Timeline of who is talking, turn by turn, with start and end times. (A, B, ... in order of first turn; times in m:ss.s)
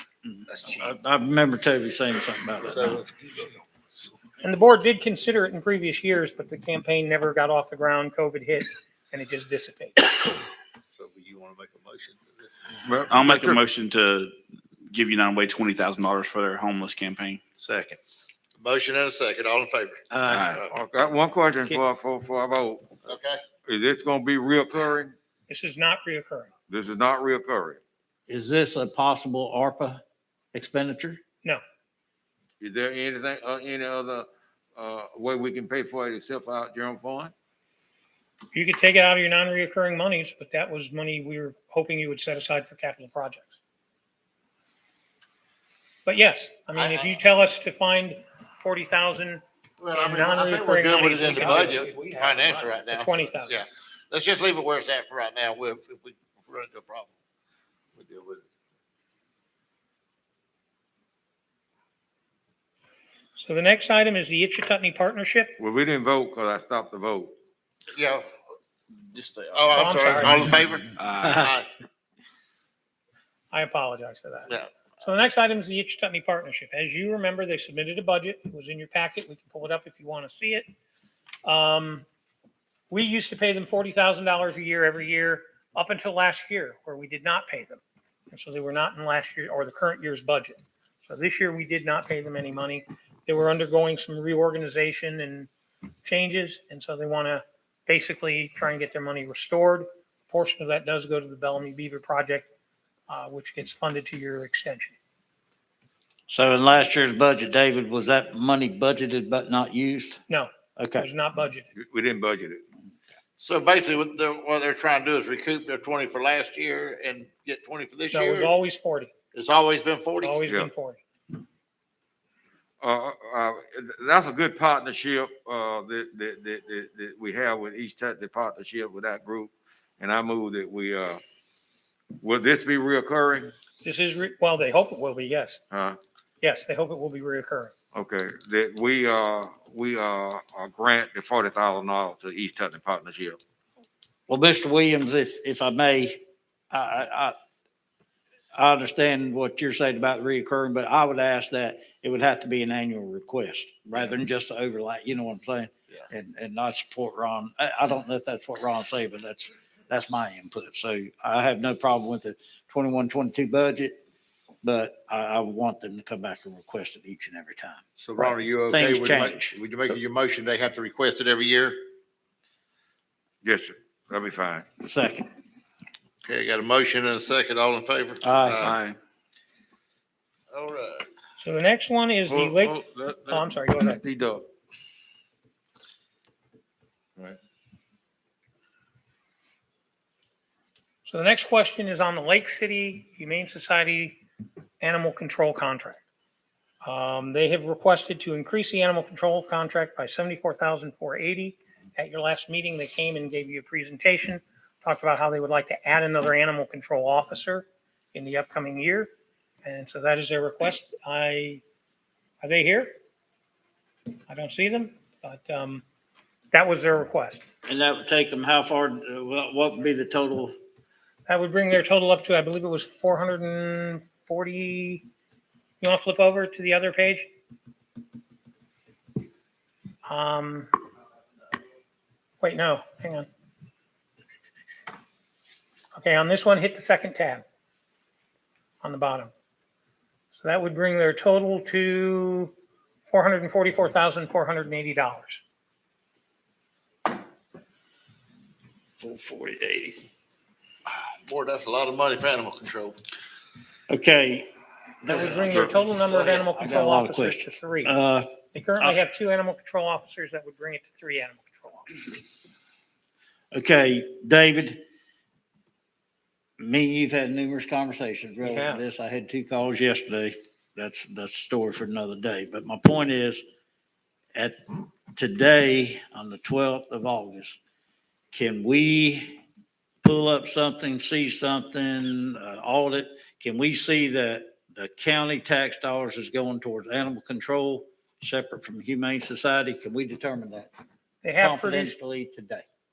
0:00.2-0:03.0 A
0:02.6-0:03.5 B
0:04.4-0:10.1 C
0:10.8-0:12.5 B
0:12.8-0:13.6 D
0:13.0-0:14.4 E
0:14.9-0:18.0 E
0:18.6-0:20.7 B
0:20.1-0:20.5 A
0:20.2-0:20.6 E
0:20.7-0:22.9 D
0:23.0-0:23.4 B
0:23.6-0:25.1 D
0:25.5-0:26.5 C
0:26.7-0:27.8 D
0:28.3-0:30.0 A
0:30.5-0:31.2 A
0:32.6-0:37.3 D
0:38.5-0:43.5 C
0:46.0-0:51.7 C
0:46.7-0:47.2 B
0:49.8-0:57.1 B
0:52.8-0:53.6 C
0:58.0-0:58.4 B
1:03.4-1:05.6 C
1:05.6-1:07.3 D
1:07.9-1:08.2 B
1:09.1-1:10.2 E
1:09.5-1:11.7 B
1:09.8-1:10.5 C
1:11.0-1:11.5 E
1:13.5-1:20.6 C
1:21.4-1:22.1 C
1:22.9-1:35.5 C
1:36.0-1:42.5 C
1:43.1-1:45.0 C
1:46.3-1:50.2 A
1:50.3-1:51.7 C
1:50.8-1:51.1 A
1:51.8-1:52.6 D
1:53.4-1:58.5 B
1:58.1-1:59.1 C
1:59.3-2:00.4 B
2:00.2-2:01.0 C
2:02.8-2:11.2 D
2:12.2-2:13.5 D
2:13.8-2:15.6 C
2:15.7-2:16.0 D
2:16.4-2:17.7 C
2:17.9-2:23.4 D
2:24.3-2:26.2 A
2:26.7-2:27.4 A
2:28.5-2:43.9 A
2:44.6-2:49.6 A
2:48.0-2:51.8 B
2:53.4-2:54.6 D
2:54.8-2:55.3 A
2:56.2-2:58.8 B
2:58.2-2:58.8 A
2:58.6-2:59.0 E
3:00.5-3:01.0 B
3:01.4-3:04.0 C
3:02.3-3:04.5 D
3:11.0-3:14.2 C
3:14.8-3:16.0 C
3:16.8-3:29.1 C
3:29.6-3:31.6 C
3:32.4-3:32.9 C
3:34.3-3:35.8 C
3:36.5-3:37.4 C
3:37.6-3:40.6 A
3:41.3-3:45.0 C
3:45.8-3:47.3 C
3:50.0-3:50.7 C
3:52.4-3:53.3 C
3:55.9-3:57.4 C
3:58.8-3:59.3 C
4:00.3-4:02.5 C
4:03.1-4:05.4 C
4:09.0-4:10.1 A
4:11.2-4:13.0 B
4:13.9-4:14.5 A
4:15.0-4:19.0 A
4:15.0-4:18.0 C
4:18.5-4:22.0 C
4:23.5-4:24.8 A
4:26.6-4:33.4 A
4:28.4-4:28.8 C
4:34.3-4:37.6 A
4:38.3-4:39.4 A
4:40.0-4:50.7 A
4:51.2-4:52.0 C
4:51.4-4:52.6 A